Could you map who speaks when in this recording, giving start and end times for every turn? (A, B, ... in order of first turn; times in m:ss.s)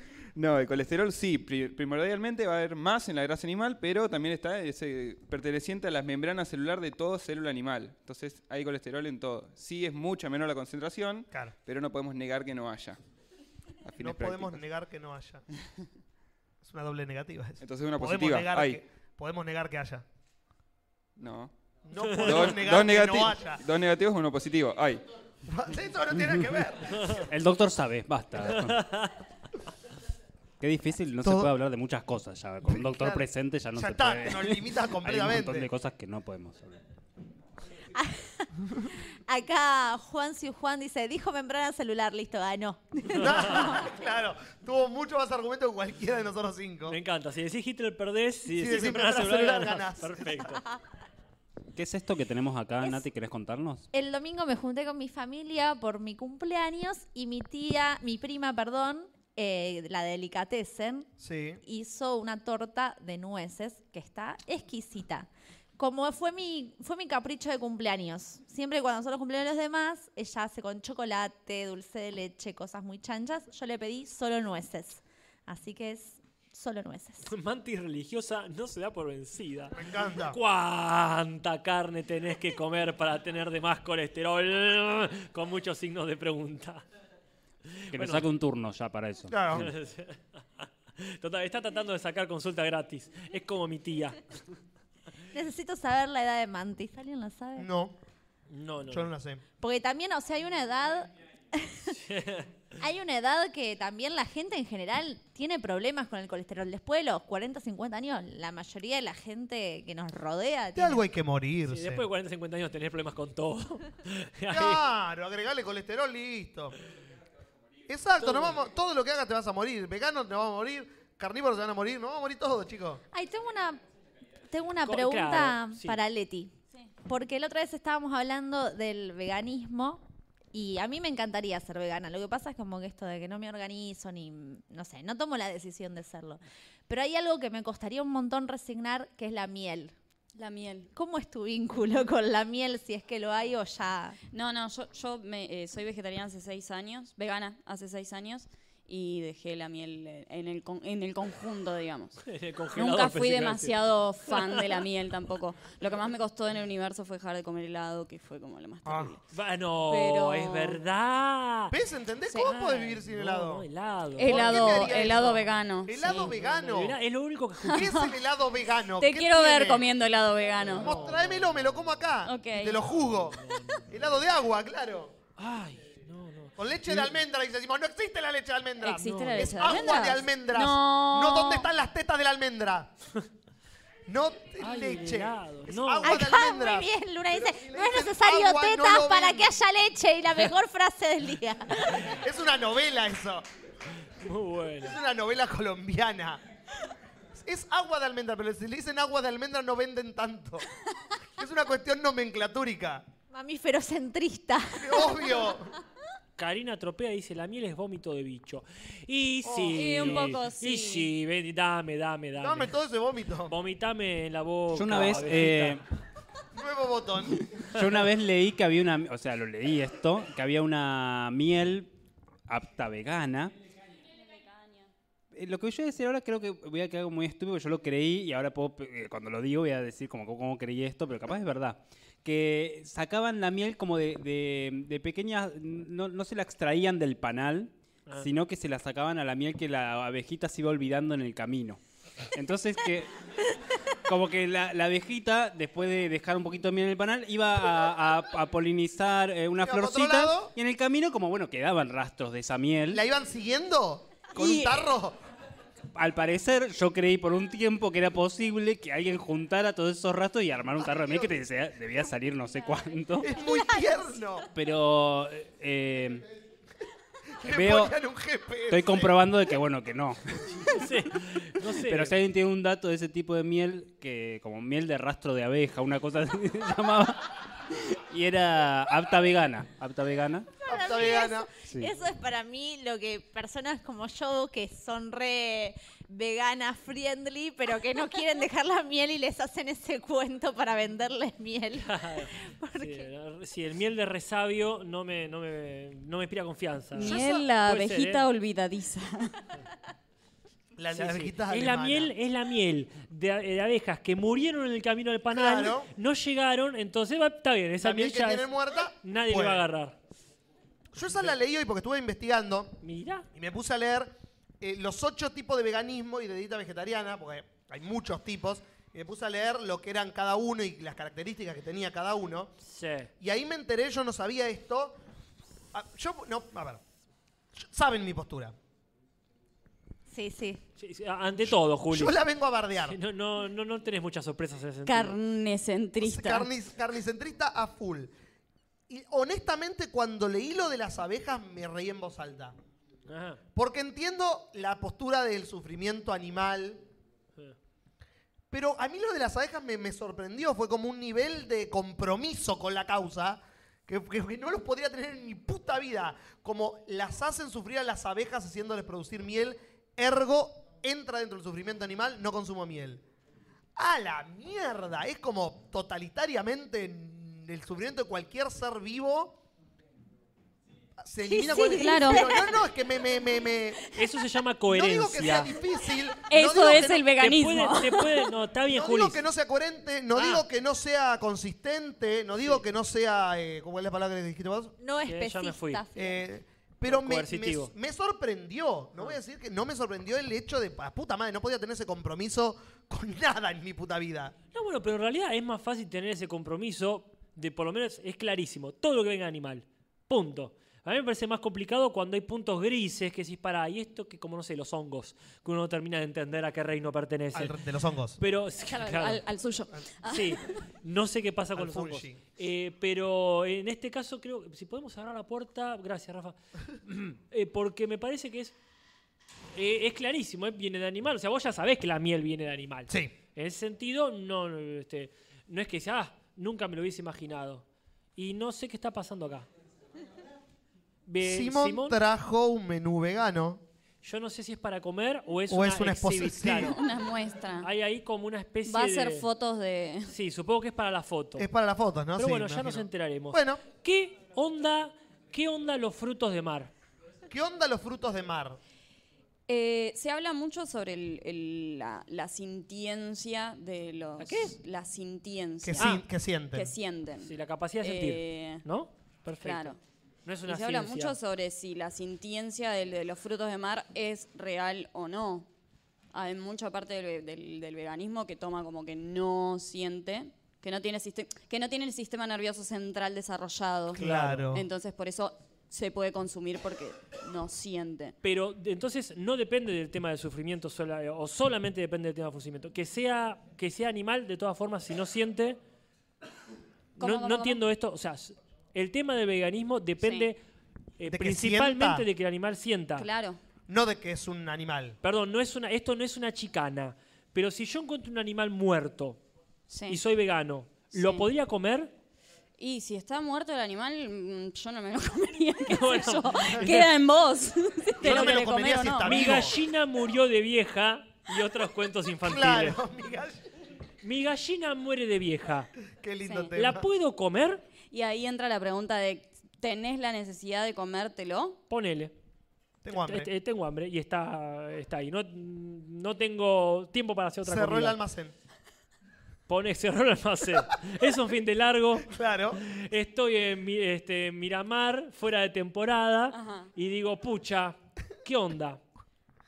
0:00.4-0:13.0 A
0:13.8-0:14.6 A
0:14.0-0:15.4 B
0:16.6-0:20.0 B
0:17.6-0:18.8 A
0:21.2-0:21.5 A
0:21.9-0:23.6 B
0:22.0-0:22.5 C
0:22.2-0:25.0 A
0:25.5-0:27.2 B
0:27.3-0:28.9 D
0:28.6-0:29.1 C
0:30.6-0:36.8 D
0:31.2-0:31.5 B
0:32.6-0:35.7 B
0:37.9-0:38.5 E
0:39.3-0:43.8 E
0:43.1-0:47.0 B
0:43.2-0:43.6 C
0:46.9-0:50.6 C
0:48.5-0:50.6 B
0:51.8-0:53.8 D
0:53.9-1:01.1 E
1:01.2-1:01.6 B
1:01.6-1:17.3 E
1:17.3-1:26.8 C
1:19.7-1:20.4 B
1:27.8-1:28.2 C
1:27.9-1:29.7 D
1:29.3-1:29.7 B
1:29.5-1:34.2 C
1:35.3-1:37.7 E
1:37.6-1:38.0 B
1:38.5-1:39.1 C
1:38.9-1:39.4 B
1:39.6-1:42.0 E
1:42.0-1:42.5 C
1:42.8-1:51.0 E
1:50.7-1:52.0 B
1:51.7-1:54.8 C
1:54.5-1:56.7 B
1:57.9-2:03.0 B
1:58.2-1:58.6 C
2:03.1-2:03.8 E
2:04.5-2:06.5 E
2:04.8-2:06.0 C
2:07.0-2:10.0 E
2:10.5-2:19.9 E
2:20.4-2:20.9 F
2:20.9-2:24.2 E
2:24.3-2:32.2 F
2:32.2-2:33.8 C
2:32.7-2:39.2 F
2:34.3-2:34.7 C
2:38.8-2:39.1 B
2:39.3-2:41.7 C
2:39.9-2:40.8 F
2:41.7-2:43.6 B
2:42.4-2:45.0 C
2:44.2-2:46.3 F
2:44.2-2:47.0 B
2:46.1-2:47.9 C
2:47.6-2:48.1 F
2:47.7-2:49.9 B
2:49.0-2:50.9 F
2:50.7-2:51.6 C
2:50.7-2:55.1 B
2:52.2-2:52.8 F
2:53.4-2:53.9 C
2:55.4-2:57.1 C
2:56.6-3:02.9 B
2:58.8-3:01.7 F
2:59.0-2:59.9 C
3:04.1-3:09.5 B
3:04.6-3:06.2 C
3:06.0-3:11.9 E
3:11.9-3:13.4 B
3:14.2-3:15.0 C
3:14.8-3:16.4 B
3:17.3-3:20.6 B
3:21.4-3:23.0 B
3:23.3-3:25.2 E
3:24.8-3:25.7 B
3:26.4-3:32.7 C
3:29.4-3:30.3 B
3:29.7-3:31.1 F
3:32.4-3:33.5 B
3:33.5-3:35.8 C
3:34.7-3:35.8 D
3:36.5-3:37.5 B
3:37.7-3:41.9 D
3:42.5-3:43.5 D
3:44.1-3:44.9 F
3:45.3-4:01.8 D
4:02.3-4:03.1 D
4:04.0-4:13.0 D
4:09.6-4:10.5 B
4:12.9-4:15.2 B
4:14.3-4:14.9 F
4:16.0-4:23.3 D
4:20.8-4:21.4 B
4:23.2-4:24.5 B
4:24.5-4:26.2 D
4:27.4-4:29.2 B
4:27.5-4:27.9 D
4:28.7-4:30.7 D
4:30.7-4:32.2 C
4:31.8-4:37.2 D
4:38.1-4:40.5 D
4:40.6-4:53.1 E
4:40.6-4:41.5 B
4:51.8-4:58.2 C
4:56.9-4:59.3 F
4:57.0-4:57.4 B
5:00.8-5:02.1 B
5:00.9-5:08.5 C
5:05.3-5:05.9 B
5:07.8-5:09.6 B
5:09.0-5:09.9 C
5:10.9-5:12.7 B
5:12.8-5:13.3 C
5:13.3-5:22.5 B
5:22.6-5:23.1 C
5:23.2-5:25.0 B
5:25.7-5:26.8 B
5:27.5-5:28.6 B
5:30.1-5:30.6 E
5:30.8-5:32.2 C
5:31.9-5:33.0 B
5:32.8-5:35.2 C
5:34.8-5:36.5 F
5:36.0-5:38.1 B
5:38.9-5:42.6 B
5:43.1-5:43.4 C
5:43.6-5:46.8 B
5:48.5-6:03.0 B
6:03.8-6:09.4 B
6:11.0-6:14.0 B
6:11.2-6:12.5 E
6:11.6-6:12.3 F
6:13.9-6:15.5 C
6:14.7-6:17.1 B
6:16.3-6:18.1 F
6:17.2-6:19.2 C
6:18.7-6:24.7 B
6:20.1-6:20.4 C
6:24.8-6:26.2 E
6:25.0-6:25.8 C
6:26.0-6:34.3 B
6:26.8-6:27.7 C
6:34.5-6:47.6 C
6:47.3-6:48.2 B
6:48.2-6:49.2 C
6:48.7-6:50.6 F
6:50.1-6:58.5 C
6:51.5-6:52.2 B
6:59.6-7:07.6 C
7:08.2-7:09.4 C
7:11.1-7:12.0 C
7:11.2-7:13.6 B
7:14.0-7:16.8 C
7:15.5-7:16.8 B
7:16.5-7:17.7 F
7:17.6-7:19.2 C
7:18.6-7:20.1 F
7:20.1-7:21.5 C
7:21.4-7:23.6 B
7:22.2-7:26.7 C
7:27.3-7:28.6 B
7:29.5-7:36.0 F
7:34.2-7:34.6 C
7:35.6-7:36.7 B
7:36.5-7:37.3 F
7:37.2-7:39.7 C
7:37.8-7:38.6 F
7:39.4-7:39.8 F
7:40.2-7:41.2 C
7:40.4-7:45.5 F
7:46.1-7:58.1 F
7:53.9-7:54.6 B
7:54.0-7:54.5 C
7:58.2-8:05.6 C
8:07.0-8:07.6 F
8:07.0-8:10.4 C
8:10.0-8:10.3 F
8:11.0-8:13.1 C
8:11.1-8:12.0 B
8:13.0-8:13.4 F
8:13.7-8:15.0 B
8:15.0-8:19.2 C
8:19.7-8:20.0 F
8:19.9-8:21.9 C
8:20.9-8:21.2 F
8:22.6-8:29.4 F
8:25.7-8:26.8 C
8:28.0-8:29.6 B
8:28.0-8:28.4 C
8:29.0-8:32.8 C
8:32.2-8:33.4 B
8:34.0-8:35.7 C
8:36.0-8:36.9 B
8:36.2-8:36.5 F
8:36.5-8:37.6 C
8:37.9-8:41.6 F
8:41.7-8:42.1 C
8:42.8-8:43.3 B
8:42.9-8:48.0 C
8:47.4-8:48.3 B
8:49.5-8:58.8 C
8:52.0-8:52.6 B
8:56.3-8:56.7 F